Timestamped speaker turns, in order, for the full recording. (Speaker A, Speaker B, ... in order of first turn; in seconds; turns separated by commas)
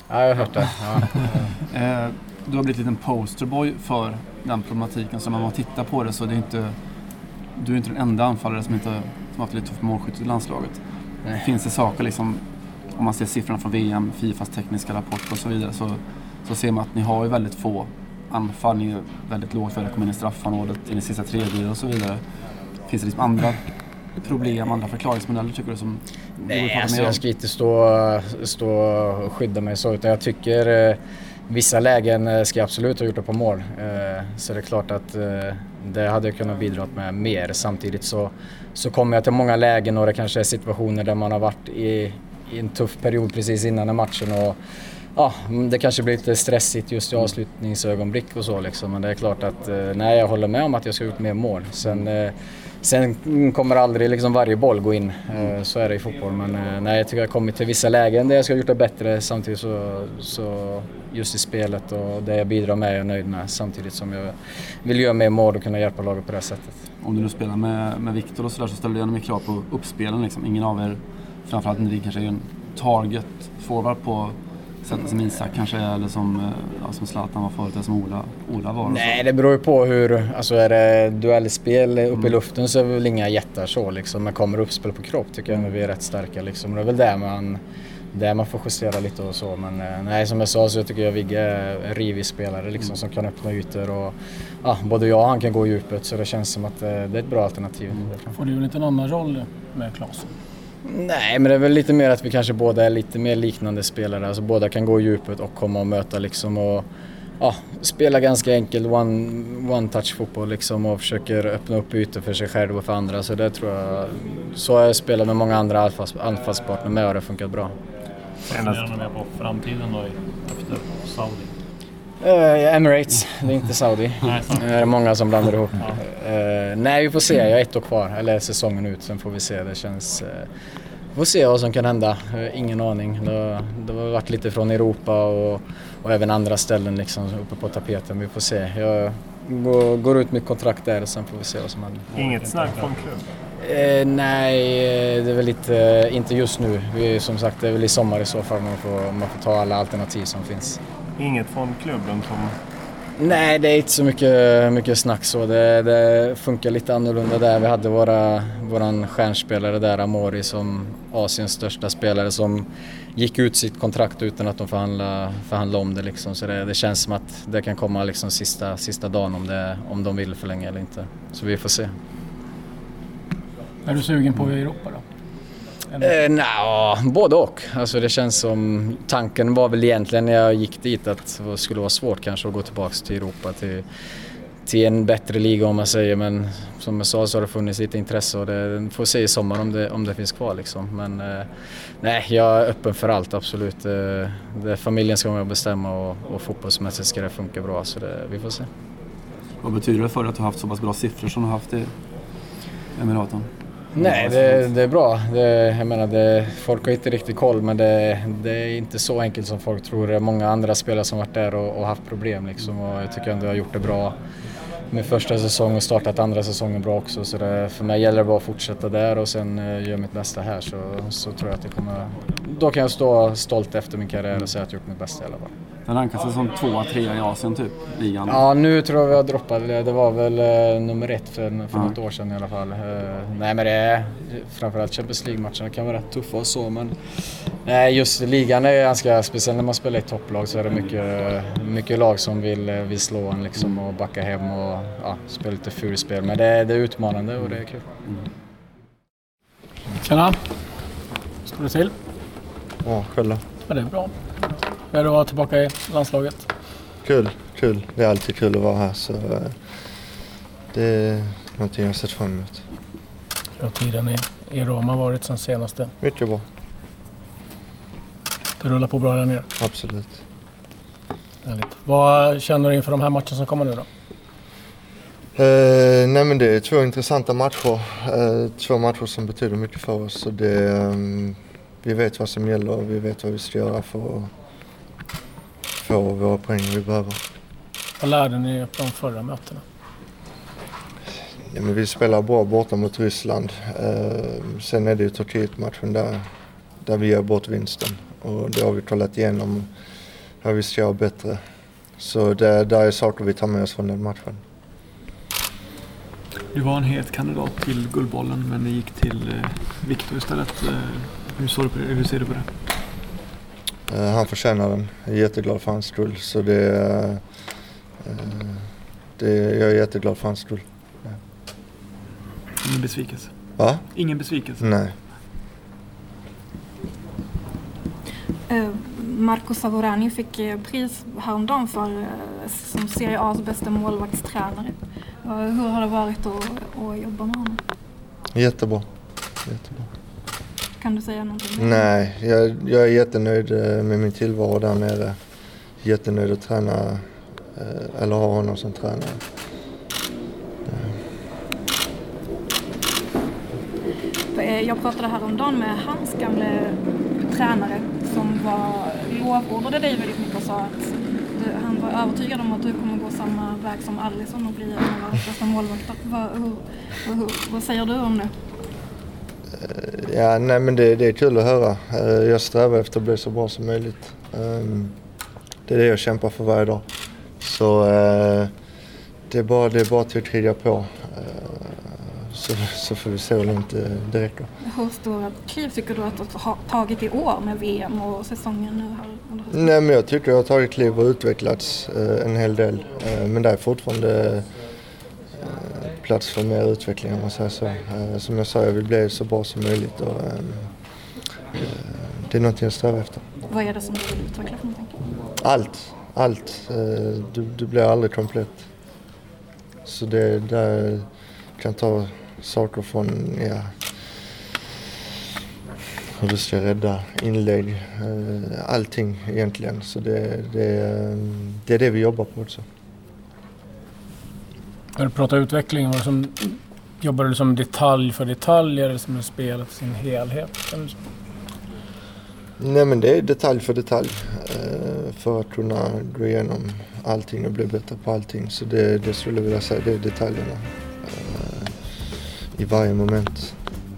Speaker A: 0.1-1.6, Speaker B: 1.7-6.8, Speaker B: 7.5-22.2, Speaker B: 22.9-23.6, Speaker B: 24.2-27.2, Speaker A: 26.4-44.6, Speaker A: 45.1-66.9, Speaker B: 67.0-79.2, Speaker A: 78.9-87.6, Speaker A: 88.1-98.3, Speaker C: 98.3-100.3, Speaker A: 100.8-106.9, Speaker A: 107.4-117.8, Speaker D: 118.5-121.5, Speaker E: 118.5-118.9, Speaker A: 122.2-130.5, Speaker D: 124.2-125.1, Speaker A: 131.1-142.1, Speaker D: 142.1-142.9, Speaker E: 142.2-143.3, Speaker A: 143.6-150.8, Speaker E: 151.2-152.6, Speaker A: 153.2-171.9, Speaker C: 173.8-175.0, Speaker A: 176.0-183.8, Speaker A: 184.7-198.7, Speaker B: 199.6-201.9, Speaker B: 203.0-204.7, Speaker A: 203.9-214.2, Speaker A: 214.9-225.5, Speaker B: 225.9-228.4, Speaker A: 228.3-247.8, Speaker C: 250.0-250.4, Speaker C: 251.4-251.9, Speaker F: 252.8-253.4, Speaker C: 253.7-256.5, Speaker F: 257.0-259.6, Speaker F: 260.7-262.6, Speaker C: 263.6-265.9, Speaker F: 266.0-266.4, Speaker C: 268.6-269.5, Speaker F: 269.6-270.2, Speaker C: 271.4-273.9, Speaker F: 275.4-284.3, Speaker F: 285.8-287.2, Speaker C: 288.0-289.6, Speaker F: 291.5-296.2, Speaker F: 296.8-299.7, Speaker F: 300.4-301.4, Speaker F: 302.0-304.4, Speaker G: 306.5-312.5, Speaker F: 313.9-317.2, Speaker F: 318.0-318.7, Speaker F: 319.2-321.2, Speaker G: 322.6-323.3, Speaker F: 323.6-323.9, Speaker G: 323.9-324.6, Speaker F: 324.6-325.0, Speaker H: 328.5-337.6, Speaker F: 338.3-338.9, Speaker F: 339.4-339.9, Speaker H: 340.8-341.9, Speaker F: 341.6-345.2, Speaker F: 345.8-347.0, Speaker F: 347.6-349.2, Speaker F: 350.7-350.9, Speaker H: 354.3-368.4, Speaker F: 369.6-374.9, Speaker F: 375.7-376.8, Speaker F: 377.4-378.5, Speaker F: 379.3-384.5, Speaker H: 384.6-389.7, Speaker F: 389.5-394.5, Speaker F: 395.3-400.7, Speaker F: 401.5-403.2, Speaker H: 403.5-405.0, Speaker F: 405.4-408.6, Speaker F: 409.9-411.1, Speaker F: 411.6-413.7, Speaker F: 416.2-422.6, Speaker C: 425.0-431.0, Speaker F: 432.6-443.6